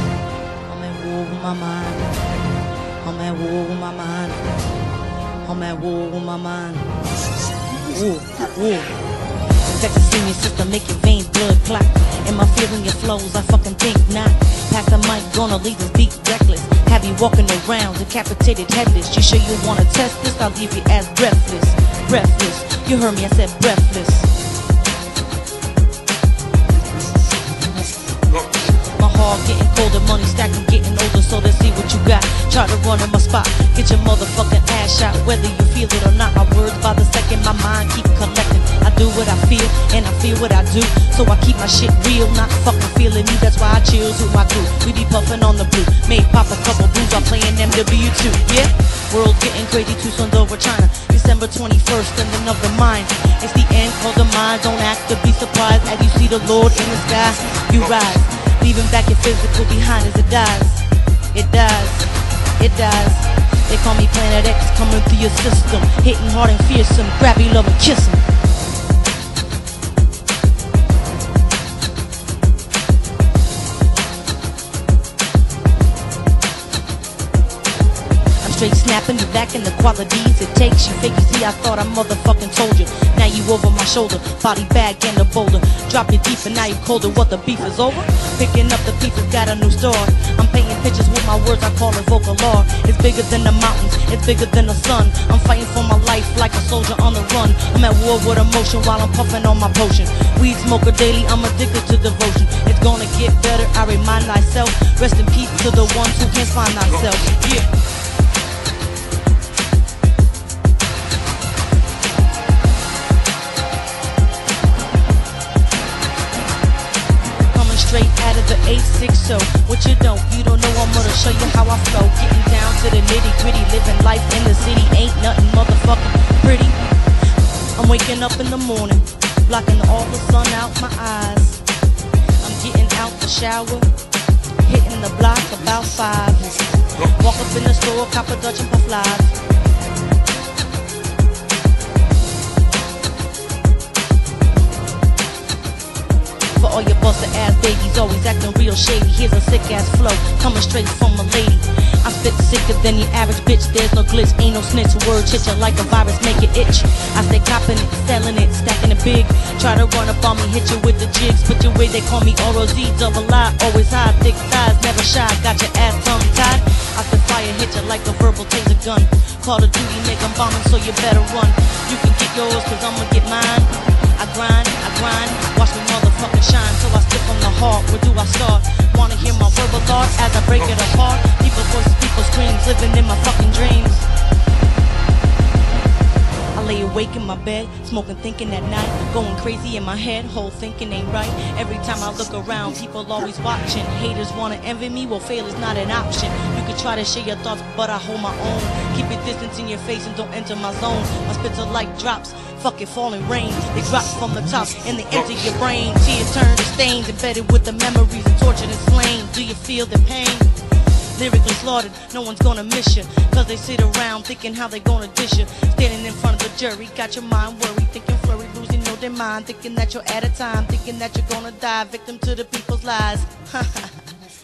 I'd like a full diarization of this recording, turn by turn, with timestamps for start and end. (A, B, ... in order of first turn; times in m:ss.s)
0:00.6-0:02.1 A
0:03.0-0:04.4 A
0:05.4-0:06.9 A
0:07.7-0:08.9 A
0:09.6-0:24.3 A
0:29.0-1:08.2 A
1:18.4-1:47.7 A
1:57.5-2:06.8 A
2:07.8-2:11.6 A
2:12.4-2:13.9 A
2:14.6-2:19.3 A
2:26.5-3:04.1 A
3:06.5-3:30.5 A
3:31.1-3:44.0 A